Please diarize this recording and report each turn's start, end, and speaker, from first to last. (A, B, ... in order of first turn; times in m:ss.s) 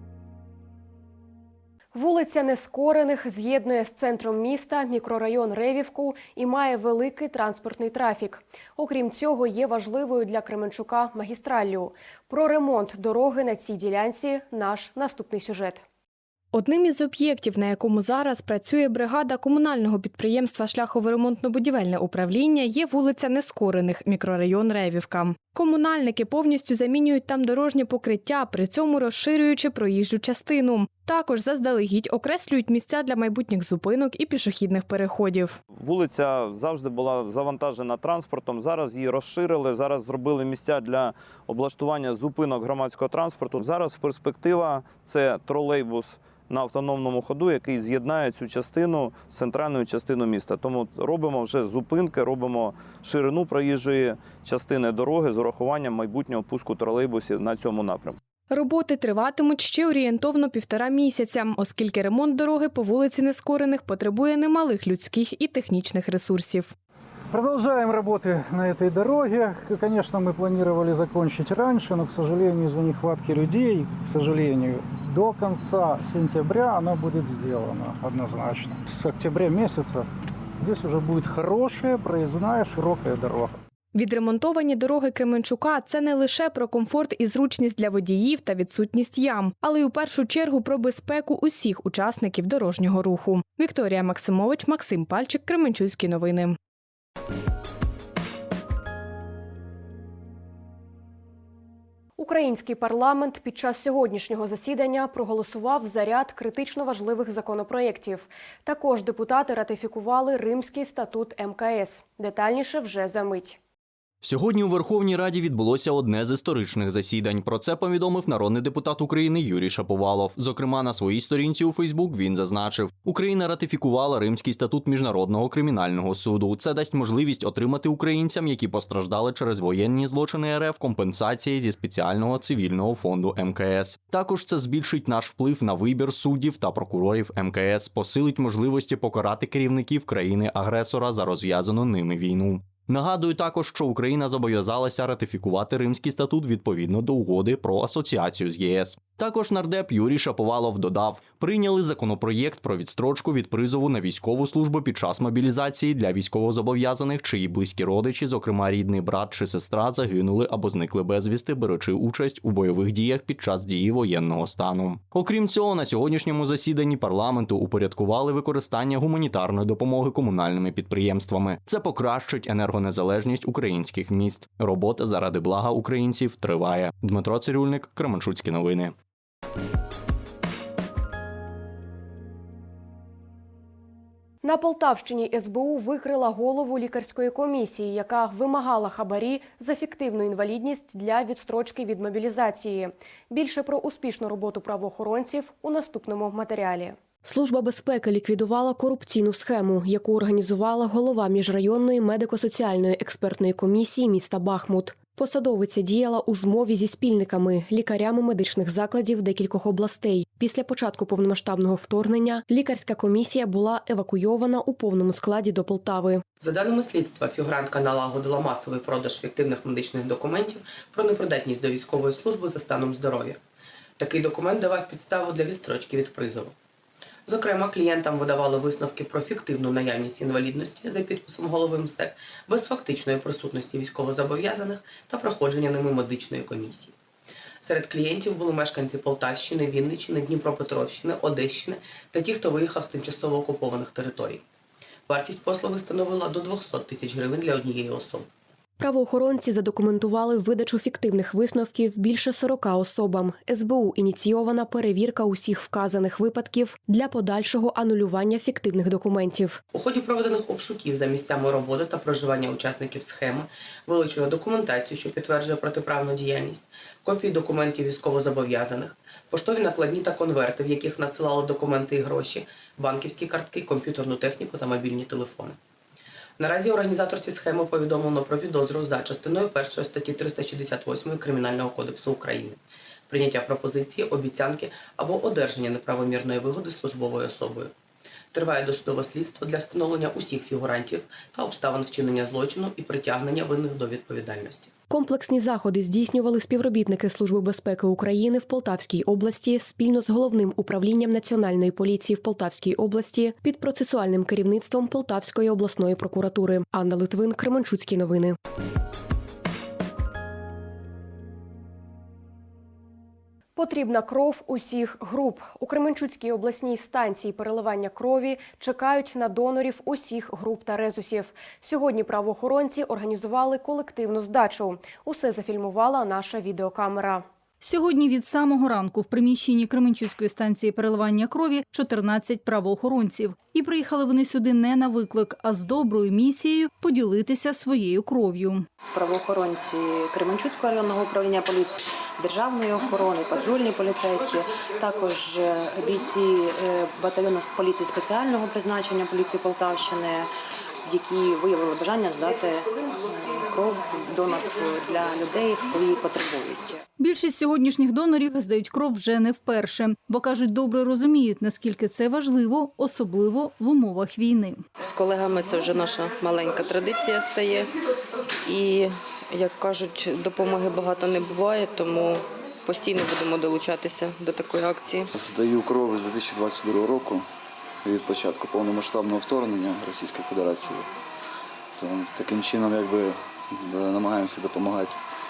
0:01.9-0:15.8 A
0:16.5-0:35.6 B
0:35.7-0:58.2 C
0:58.5-1:06.7 B
1:07.3-1:20.1 D
1:20.6-1:23.6 D
1:23.9-1:36.6 B
1:42.2-1:53.6 A
1:54.2-2:58.9 E
3:04.4-3:36.2 A
3:36.4-3:43.4 F
3:44.0-3:46.5 F
3:47.3-3:56.9 F
3:57.6-4:04.4 F
4:05.1-4:08.3 F
4:08.8-4:19.6 A
4:19.7-4:35.6 F
4:36.4-4:47.7 F
4:48.3-4:54.7 F
4:54.9-5:08.4 A
5:13.6-5:27.2 A
5:27.6-5:38.6 G
5:38.9-5:50.3 H
5:50.8-5:56.8 H
5:57.0-6:04.6 G
6:04.8-6:07.7 I
6:08.4-6:15.1 I
6:15.1-6:17.2 J
6:17.8-6:20.8 J
6:21.8-6:24.9 J